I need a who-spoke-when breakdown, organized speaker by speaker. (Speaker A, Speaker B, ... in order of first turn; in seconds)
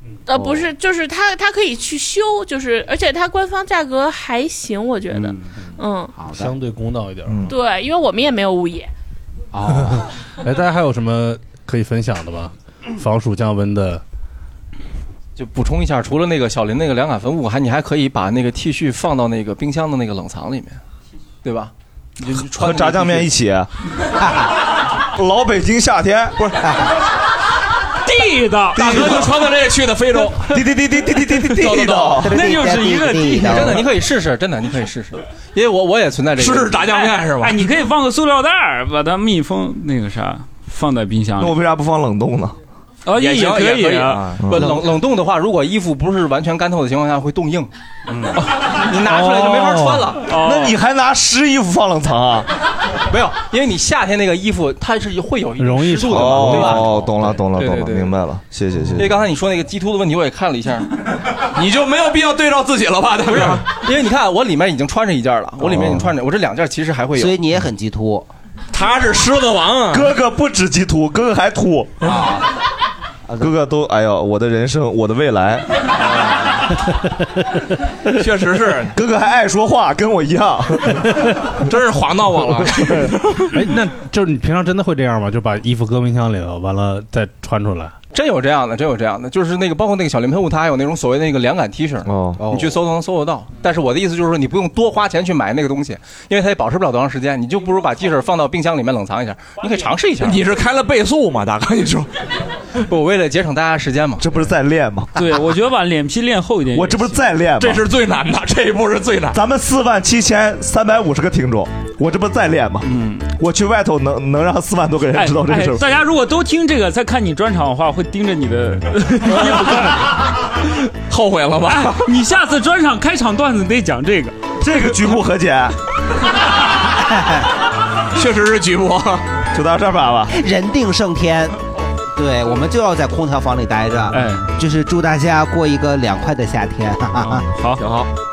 Speaker A: 0.3-6.1, 7.5-8.9
Speaker B: 0.3-0.7, 5.1-5.4, 6.2-6.5, 9.5-10.1, 26.6-26.9, 32.2-33.9, 67.1-68.3, 72.0-72.5, 92.4-92.7, 127.0-127.5, 130.3-131.6, 132.2-137.5
Speaker C: 6.3-7.5, 9.7-14.0, 49.0-50.1, 55.6-56.9, 83.5-88.0
Speaker D: 7.3-7.5, 22.5-23.7, 25.1-26.6, 28.8-29.3, 30.5-32.3, 41.4-42.6, 44.4-44.8, 50.2-52.5, 56.1-59.2, 65.6-66.1, 69.9-72.1, 73.4-75.7, 78.9-81.1, 92.0-92.4, 104.2-105.2, 106.7-107.8, 109.3-115.9, 124.6-125.8, 129.5-130.3
Speaker E: 15.4-20.8, 21.4-23.3, 33.5-36.9, 44.5-50.2, 53.1-58.2, 59.0-60.9, 63.3-67.4, 88.1-100.4, 102.9-104.3
Speaker F: 28.1-29.3, 32.3-33.6, 37.0-41.5, 43.1-44.3, 50.1-50.8, 105.2-107.2, 112.8-113.3, 115.1-120.1, 121.7-124.4, 134.1-134.5, 137.2-137.9
Speaker G: 28.7-30.5, 31.5-32.4, 36.4-37.7, 43.1-44.4, 61.5-63.6, 68.7-70.1, 78.1-79.0, 81.7-83.6, 100.2-102.1, 107.6-109.4, 119.3-119.9, 121.1-122.0, 128.1-129.3, 137.8-138.1